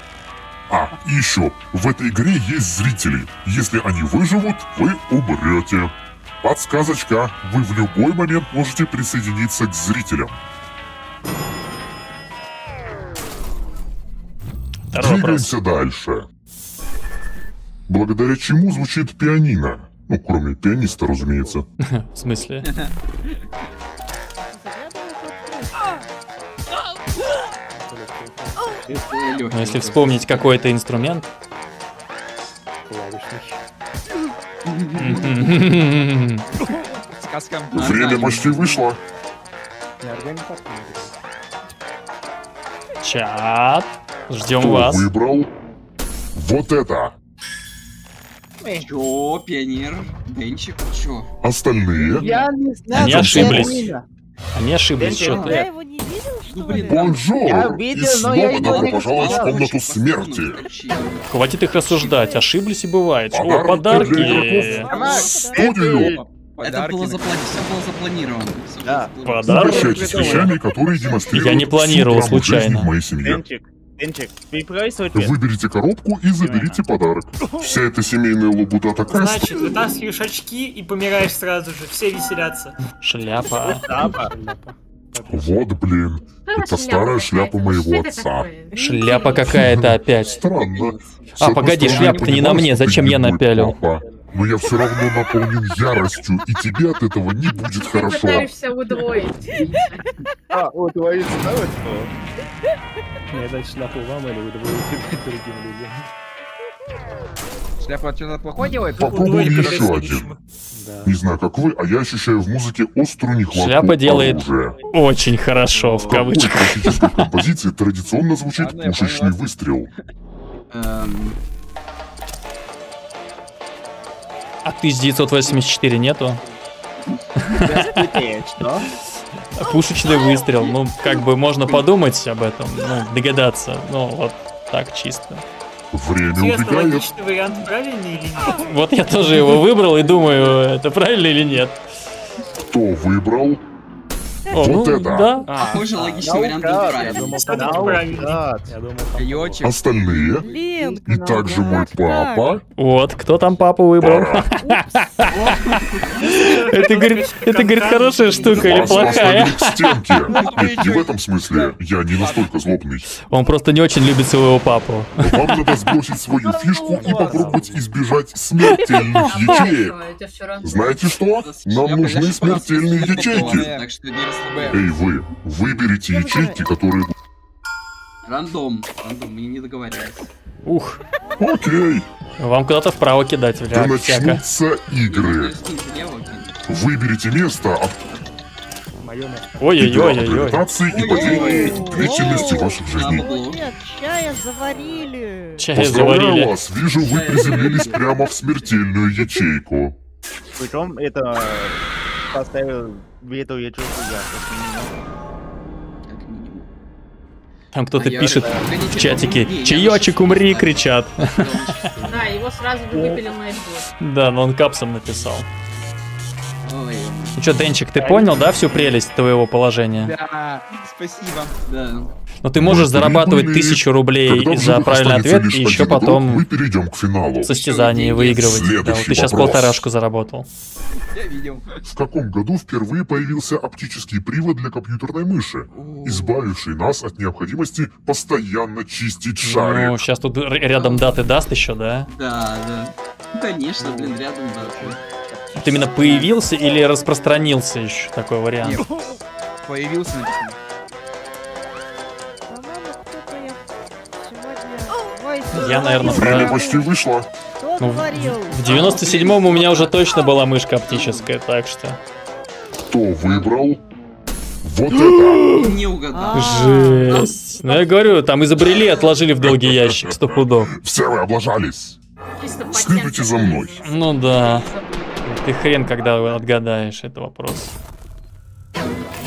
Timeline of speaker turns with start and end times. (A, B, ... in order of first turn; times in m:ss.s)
0:00.7-0:10.3 A
0:14.9-0:15.5 B
0:14.9-0:16.3 A
0:17.9-0:21.6 A
0:20.8-0:21.6 C
0:21.8-0:22.7 B
0:24.4-0:26.1 D
0:27.7-0:29.1 C
0:28.9-0:30.6 E
0:29.5-0:31.3 B
0:32.8-0:33.6 C
0:34.6-0:35.4 E
0:35.0-0:36.4 B
0:37.0-0:38.6 F
0:37.7-0:38.8 E
0:37.7-0:39.0 A
0:40.0-0:41.2 C
0:43.0-0:45.1 B
0:44.6-0:45.5 A
0:46.3-0:47.2 A
0:48.7-0:51.3 E
0:51.4-0:52.3 A
0:52.0-0:54.0 G
0:52.2-0:52.5 F
0:52.9-0:53.8 A
0:52.9-0:53.9 B
0:54.5-0:55.6 B
0:55.0-0:55.7 G
0:55.2-0:57.2 D
0:55.2-0:55.6 E
0:56.5-0:57.7 E
0:56.7-1:00.6 A
0:57.4-0:59.8 G
0:58.4-1:01.3 E
1:01.3-1:04.9 B
1:01.9-1:02.4 D
1:03.3-1:05.0 A
1:03.9-1:06.2 G
1:04.1-1:05.6 D
1:04.9-1:07.7 F
1:05.5-1:06.2 A
1:06.6-1:10.2 E
1:08.8-1:10.4 G
1:09.2-1:10.5 B
1:09.5-1:13.4 A
1:09.7-1:10.5 F
1:11.3-1:12.9 B
1:13.2-1:15.3 G
1:15.1-1:19.6 A
1:16.4-1:16.8 G
1:19.1-1:22.8 H
1:23.0-1:23.9 B
1:23.6-1:24.3 G
1:23.9-1:25.6 C
1:25.3-1:28.5 A
1:26.4-1:29.5 I
1:28.7-1:30.4 B
1:28.8-1:29.3 D
1:29.4-1:38.5 A
1:30.5-1:31.2 E
1:31.4-1:33.8 B
1:31.8-1:32.6 E
1:37.8-1:40.0 I
1:40.5-1:42.1 G
1:43.3-1:46.1 C
1:47.8-1:50.0 F
1:49.0-1:50.4 H
1:49.0-1:50.3 A
1:50.7-1:51.2 C
1:51.0-1:54.8 A
1:53.5-1:57.0 B
1:55.7-1:56.2 G
1:56.1-1:59.9 A
1:58.5-1:59.5 F
2:00.7-2:01.4 E
2:04.6-2:06.4 B
2:07.4-2:08.2 B
2:07.6-2:08.9 G
2:09.6-2:15.4 B
2:15.9-2:17.0 A
2:16.3-2:18.6 H
2:18.5-2:21.8 B
2:22.6-2:23.6 A
2:24.5-2:25.5 B
2:24.5-2:25.3 A
2:25.4-2:26.3 C
2:25.6-2:27.6 E
2:25.6-2:28.7 G
2:26.9-2:29.7 C
2:27.3-2:28.4 H
2:29.2-2:30.5 F
2:29.6-2:30.5 A
2:30.3-2:32.5 D
2:30.8-2:31.9 G
2:31.0-2:32.6 A
2:32.8-2:35.6 B
2:34.0-2:34.6 A
2:34.6-2:35.0 D
2:35.3-2:36.4 E
2:36.2-2:40.0 B
2:36.2-2:39.3 H
2:38.5-2:43.1 A
2:38.5-2:39.4 F
2:40.3-2:42.5 F
2:43.3-2:45.6 B
2:45.2-2:50.0 A
2:46.3-2:47.7 G
2:46.9-2:47.9 C
2:49.2-2:51.0 I
2:50.6-2:53.7 A
2:51.4-2:54.8 E
2:51.8-2:53.9 F
2:54.5-2:54.8 F
2:54.7-2:57.1 A
2:56.1-2:56.6 D
2:58.2-3:00.3 E
3:00.6-3:01.0 B
3:01.4-3:02.0 A
3:02.4-3:04.4 B
3:03.7-3:05.6 A
3:05.1-3:06.5 E
3:06.7-3:08.0 A
3:09.0-3:09.7 C
3:09.6-3:10.6 B
3:09.8-3:13.3 A
3:10.9-3:13.6 E
3:11.0-3:15.8 D
3:15.6-3:16.5 B
3:15.7-3:20.0 A
3:16.9-3:18.7 E
3:20.6-3:24.9 G
3:26.1-3:26.6 E
3:27.7-3:31.3 B
3:28.0-3:32.2 E
3:31.9-3:32.3 C
3:32.0-3:33.9 I
3:34.0-3:35.4 B
3:36.6-3:37.4 E
3:37.4-3:40.1 B
3:38.0-3:38.3 G
3:40.0-3:41.6 F
3:41.7-3:42.1 E
3:42.4-3:46.4 B
3:42.6-3:47.5 A
3:47.4-3:50.5 B
3:47.4-3:48.6 E
3:48.4-3:49.9 A
3:51.1-3:51.8 F
3:51.9-4:00.0 A
3:55.7-3:56.4 F
3:59.4-4:02.1 B
4:00.8-4:01.2 E
4:02.1-4:05.0 E
4:03.8-4:05.0 C
4:05.6-4:08.8 B
4:06.2-4:07.6 D
4:08.8-4:09.2 D
4:09.6-4:10.6 F
4:12.5-4:17.0 D
4:15.5-4:16.6 B
4:16.0-4:17.3 A
4:17.6-4:19.0 D
4:17.8-4:22.0 B
4:18.6-4:20.0 E
4:20.9-4:21.3 E
4:22.8-4:23.8 A
4:24.6-4:25.4 A
4:24.9-4:25.7 B
4:25.4-4:26.7 E
4:26.1-4:27.8 D
4:26.3-4:30.7 B
4:29.4-4:32.0 A
4:32.4-4:35.4 I
4:32.7-4:33.9 A
4:33.8-4:34.7 B
4:35.2-4:37.7 B